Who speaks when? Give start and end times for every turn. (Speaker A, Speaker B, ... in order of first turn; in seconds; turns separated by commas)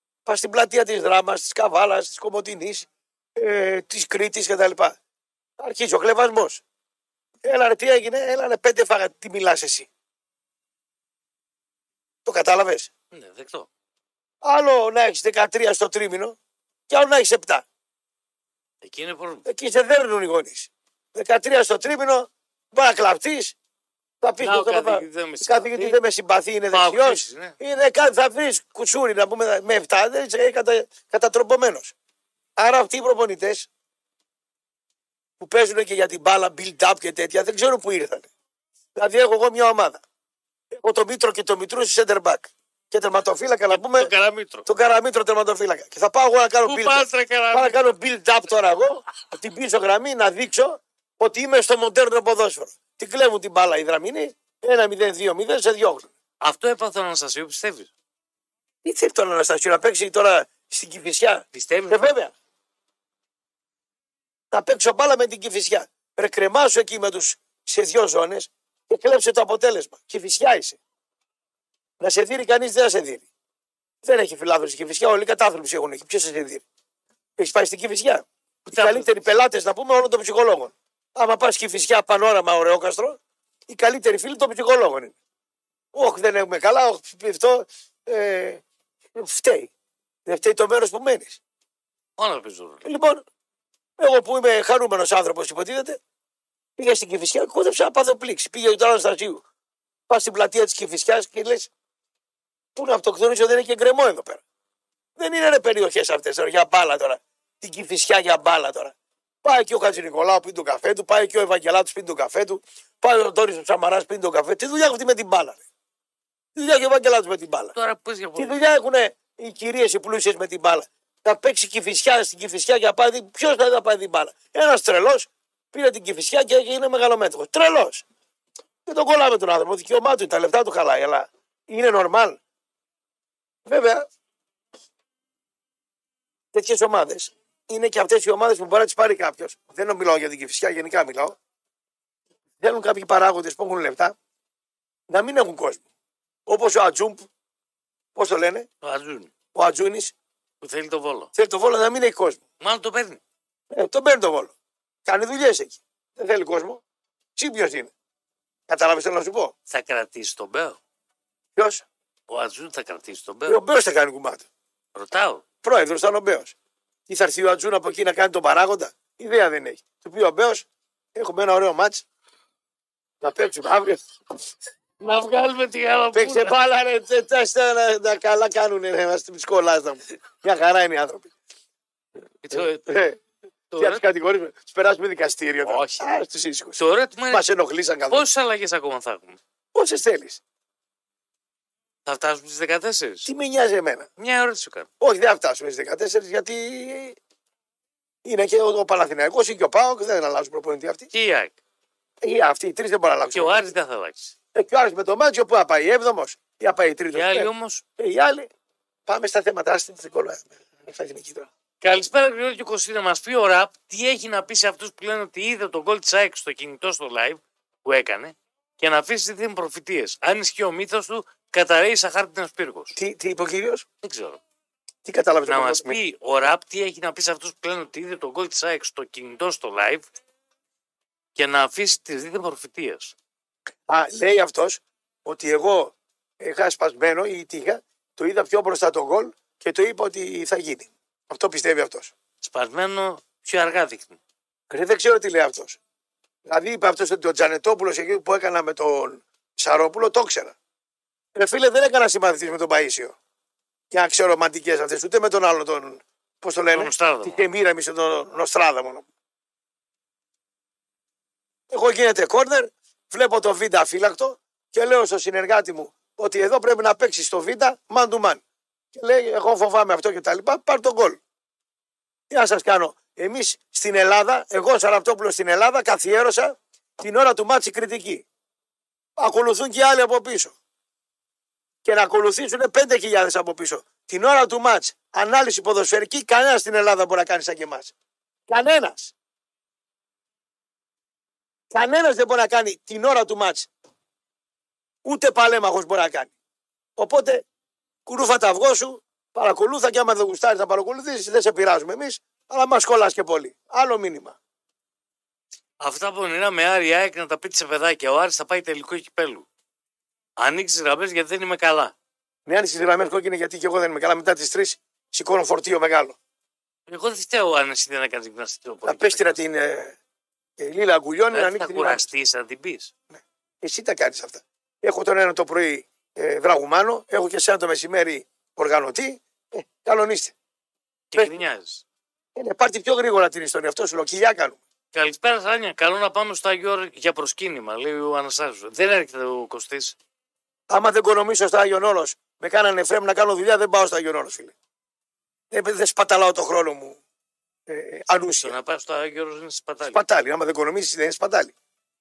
Speaker A: 0.2-5.0, Speaker A: 5.6-6.6, Speaker A: 7.4-9.9, Speaker A: 12.2-12.9, Speaker B: 13.1-13.7, Speaker A: 14.4-16.4, Speaker A: 16.9-17.6, Speaker B: 18.8-19.4, Speaker A: 19.4-23.5, Speaker A: 24.2-31.9, Speaker B: 24.4-26.0, Speaker B: 26.7-27.6, Speaker A: 32.6-33.7, Speaker A: 35.4-38.3, Speaker A: 38.9-40.0, Speaker A: 40.7-44.1, Speaker B: 43.7-44.7, Speaker A: 44.6-56.1, Speaker B: 46.6-47.9, Speaker B: 56.4-57.9, Speaker A: 58.8-62.3, Speaker B: 61.5-62.1, Speaker A: 64.5-70.8, Speaker A: 72.0-73.2, Speaker A: 74.0-76.6, Speaker A: 77.4-85.2, Speaker B: 78.7-79.1, Speaker A: 85.9-88.6, Speaker A: 89.1-89.7, Speaker A: 90.2-91.4, Speaker B: 92.2-92.8, Speaker A: 92.8-93.2, Speaker A: 94.0-96.0, Speaker A: 96.8-99.4, Speaker A: 100.1-101.7, Speaker A: 102.8-104.4, Speaker A: 105.2-115.6, Speaker A: 116.5-117.7, Speaker B: 117.7-118.6, Speaker A: 118.3-128.0, Speaker A: 128.8-132.4, Speaker A: 133.7-134.1, Speaker A: 136.5-141.3, Speaker A: 142.6-144.1, Speaker A: 145.1-145.8, Speaker A: 146.5-147.3, Speaker A: 148.1-148.7, Speaker B: 148.8-149.3, Speaker A: 149.5-150.1, Speaker B: 150.6-151.3, Speaker A: 151.3-152.4, Speaker B: 152.6-153.2, Speaker A: 153.7-154.5, Speaker A: 155.1-156.8, Speaker A: 157.4-157.9, Speaker A: 158.7-159.5, Speaker B: 159.7-160.8, Speaker A: 161.6-161.8, Speaker B: 162.3-163.6, Speaker A: 163.5-164.4, Speaker B: 164.9-165.4, Speaker A: 165.6-166.5, Speaker A: 167.1-172.0, Speaker A: 173.2-174.0, Speaker B: 175.0-176.5, Speaker A: 176.1-181.3, Speaker B: 182.4-183.1, Speaker A: 182.5-183.2, Speaker B: 183.7-184.0, Speaker A: 183.8-186.8, Speaker B: 185.6-186.2, Speaker B: 186.8-187.4, Speaker A: 187.3-188.3, Speaker B: 188.1-189.4, Speaker A: 189.7-190.4, Speaker B: 192.1-193.3, Speaker A: 193.2-194.1, Speaker B: 194.2-194.9, Speaker A: 195.0-197.2, Speaker A: 198.2-201.1, Speaker B: 201.1-201.6, Speaker A: 202.2-203.7, Speaker B: 203.3-204.3, Speaker A: 204.5-208.5, Speaker B: 207.1-207.8, Speaker A: 209.1-211.5, Speaker B: 211.8-222.9, Speaker A: 222.9-223.8, Speaker B: 224.0-224.4, Speaker A: 225.0-226.0, Speaker B: 225.4-230.1, Speaker B: 231.3-233.1, Speaker A: 233.9-242.1, Speaker B: 242.4-244.2, Speaker A: 244.7-245.8, Speaker A: 246.5-250.5, Speaker A: 251.3-253.1, Speaker A: 253.9-259.1, Speaker B: 256.7-257.4, Speaker A: 261.7-268.4, Speaker A: 268.9-271.2, Speaker A: 272.3-278.2, Speaker A: 279.2-280.5, Speaker A: 281.8-287.9, Speaker A: 288.5-289.1, Speaker A: 291.7-293.7, Speaker A: 295.0-296.3, Speaker A: 297.0-297.4, Speaker A: 298.1-304.4, Speaker B: 305.8-309.4, Speaker B: 310.4-311.9, Speaker A: 312.5-316.2, Speaker B: 316.9-319.4, Speaker A: 318.8-319.9, Speaker A: 320.6-322.1, Speaker B: 321.3-322.9, Speaker A: 323.1-330.3, Speaker B: 331.1-331.8, Speaker A: 332.3-334.6, Speaker B: 334.9-339.9, Speaker A: 340.7-344.5, Speaker A: 345.5-347.0, Speaker A: 347.7-348.5, Speaker B: 348.3-350.0, Speaker A: 349.9-351.5